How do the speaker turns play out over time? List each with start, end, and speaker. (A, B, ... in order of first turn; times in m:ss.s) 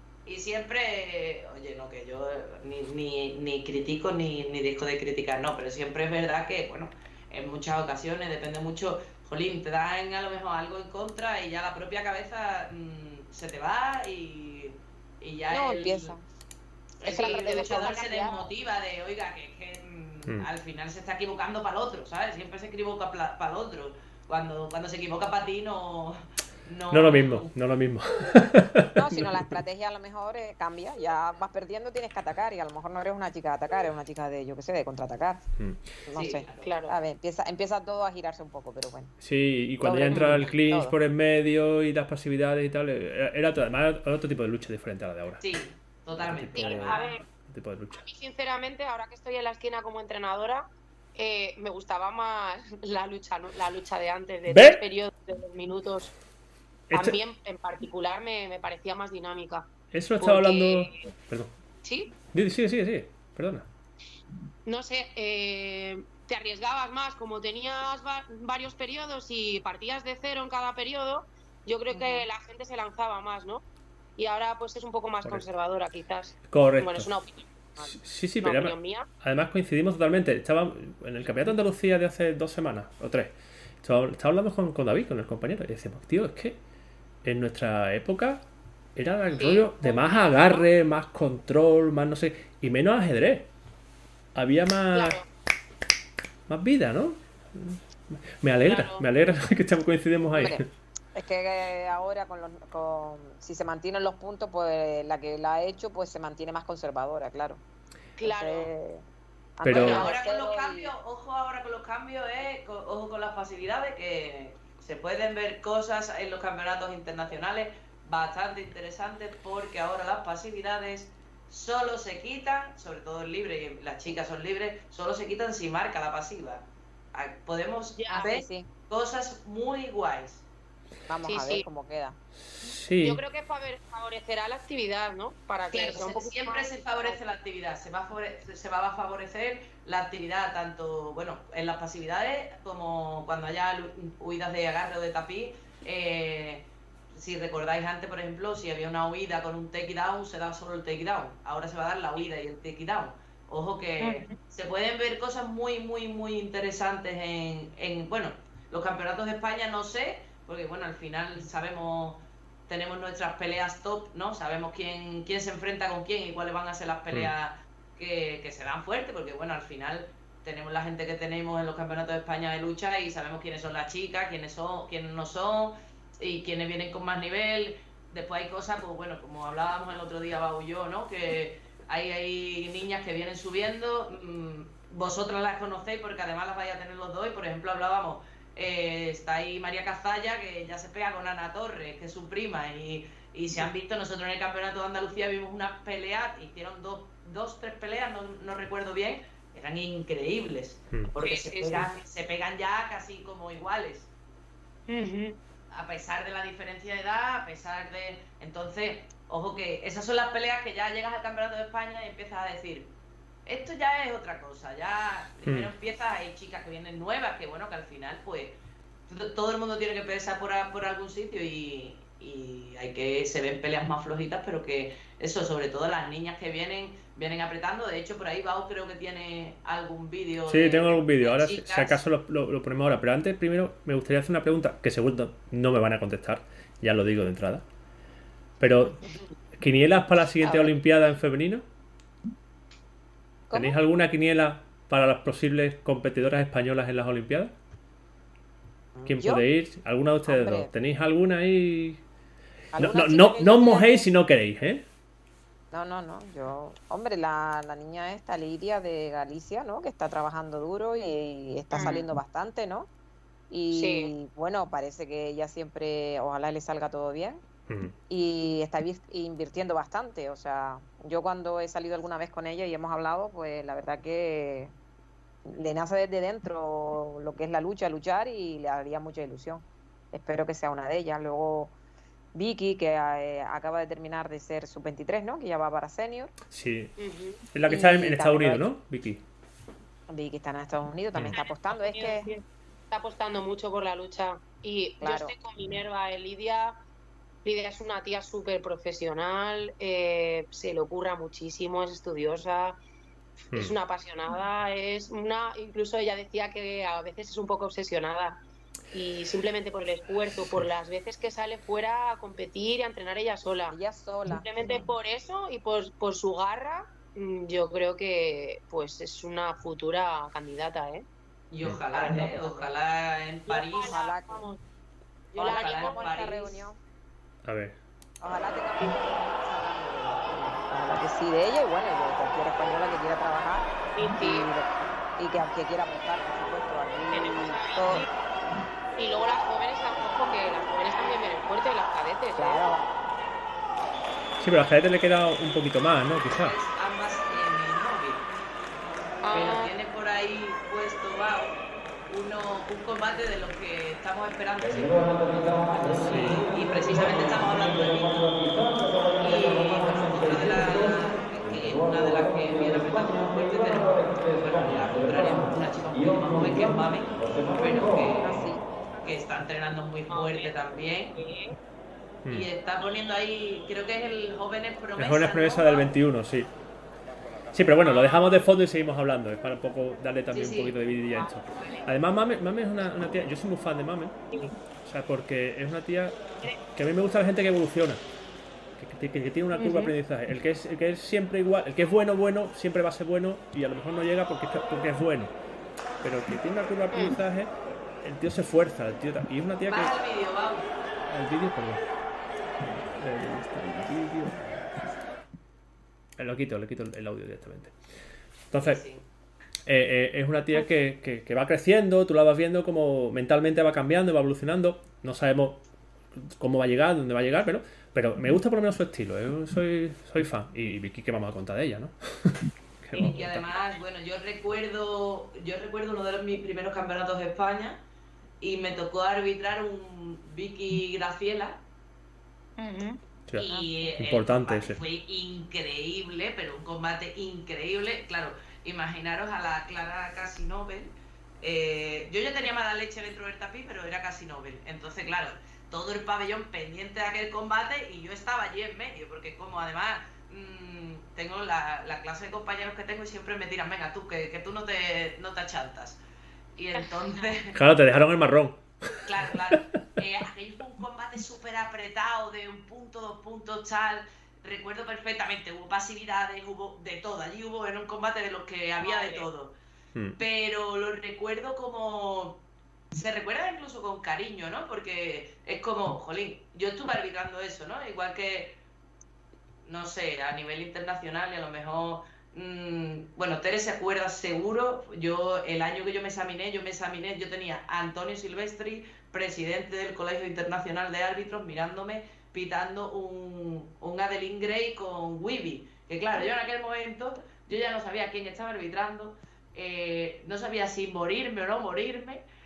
0:00.2-0:16.1 A
0:15.5-0:16.2 B
0:17.0-0:18.5 B
0:17.0-0:27.5 A
0:17.0-0:18.0 C
0:26.9-0:29.5 D
0:28.9-0:35.4 B
0:35.6-0:35.9 D
0:36.1-0:39.1 B
0:36.1-0:36.7 A
0:36.6-0:37.0 C
0:39.2-0:45.4 D
0:39.8-0:40.9 B
0:40.1-0:40.4 C
0:45.4-0:47.1 A
0:46.1-0:48.0 D
0:46.6-0:47.2 C
0:47.9-0:56.1 C
0:54.5-0:54.8 D
0:56.9-0:57.2 D
0:56.9-0:59.7 C
0:59.9-1:01.5 D
1:00.2-1:01.0 C
1:01.8-1:02.1 C
1:02.3-1:03.7 D
1:04.6-1:13.6 C
1:11.9-1:12.2 B
1:14.2-1:17.4 C
1:15.2-1:15.5 D
1:16.5-1:17.1 D
1:17.8-1:26.6 D
1:18.4-1:19.1 C
1:27.2-1:28.4 D
1:28.9-1:33.5 D
1:29.3-1:30.6 C
1:34.3-1:35.2 D
1:34.9-1:35.3 C
1:36.5-1:40.7 D
1:38.6-1:39.0 C
1:40.3-1:47.6 B
1:48.2-1:48.7 C
1:48.2-1:49.0 B
1:49.6-1:50.9 B
1:49.6-1:50.0 D
1:49.7-2:08.2 A
1:49.8-1:50.1 C
2:08.0-2:08.4 C
2:08.1-2:08.7 B
2:08.9-2:10.4 A
2:11.1-2:12.2 B
2:11.2-2:11.6 C
2:12.6-2:13.2 D
2:13.0-2:17.2 C
2:15.7-3:24.1 A
2:34.0-2:34.3 C
3:21.2-3:22.0 C
3:24.9-3:25.4 C
3:25.7-3:32.9 A
3:33.4-3:38.6 A
3:35.4-3:35.7 D
3:39.1-3:52.0 A
3:50.5-3:57.6 D
3:58.6-4:01.6 D
4:00.4-4:00.8 B
4:03.5-4:03.8 B
4:03.5-4:07.5 D
4:09.0-4:09.4 B
4:09.1-4:12.0 D
4:10.2-4:10.7 B
4:12.7-4:14.0 B
4:12.8-4:14.8 D
4:15.7-4:22.9 B
4:21.7-4:22.0 C
4:23.5-4:27.4 B
4:23.7-4:24.1 C
4:27.7-4:27.9 D
4:28.1-4:34.7 B
4:35.4-4:41.7 B
4:42.3-4:46.3 B
4:46.5-4:47.0 D
4:47.0-4:47.4 C
4:47.5-4:49.2 D
4:47.7-4:48.7 B
4:50.1-4:52.3 B
4:51.3-4:56.8 C
4:55.0-4:55.3 B
4:57.4-5:02.8 C
5:03.5-5:08.4 C
5:08.9-5:13.8 C
5:13.7-5:14.9 B
5:14.3-5:21.1 C
5:21.5-5:24.0 A
5:21.9-5:22.4 C
5:22.1-5:22.6 B
5:23.5-5:24.6 C
5:23.8-5:24.4 B
5:25.3-5:26.1 C
5:25.4-5:26.6 A
5:25.4-5:26.8 B
5:27.4-5:27.8 D
5:28.2-5:38.1 B
5:33.9-5:34.5 C
5:37.1-5:38.1 C
5:39.0-5:42.8 C
5:42.3-5:42.8 B
5:44.4-5:46.6 D
5:46.4-5:48.3 A
5:49.2-5:49.7 C
5:49.3-6:08.5 A
5:56.0-5:56.4 D
6:08.2-6:08.6 B
6:09.0-6:11.1 A
6:10.1-6:10.5 C
6:11.1-6:11.6 C
6:12.3-6:15.9 A
6:15.0-6:16.5 D
6:17.5-6:24.2 D
6:17.8-6:18.4 C
6:20.3-6:20.8 A
6:21.2-6:21.8 C
6:24.8-6:26.2 D
6:26.7-6:28.0 D
6:28.8-6:35.3 D
6:29.6-6:29.9 C
6:36.0-6:40.0 D
6:39.7-6:40.7 A
6:41.0-6:41.8 D
6:42.6-6:45.0 D
6:46.2-6:47.7 D
6:48.5-6:48.8 D
6:48.6-6:49.0 A
6:49.7-6:55.6 D
6:56.2-7:03.4 D
7:02.9-7:07.8 A
7:08.4-7:11.6 A
7:12.6-7:13.0 C
7:13.3-7:36.0 A
7:13.4-7:13.9 B
7:14.0-7:14.8 D
7:36.6-7:37.6 A
7:37.5-7:38.6 D
7:39.0-7:49.6 A
7:39.3-7:39.6 D
7:48.8-7:49.3 C
7:50.2-7:58.6 A
7:59.6-8:22.2 A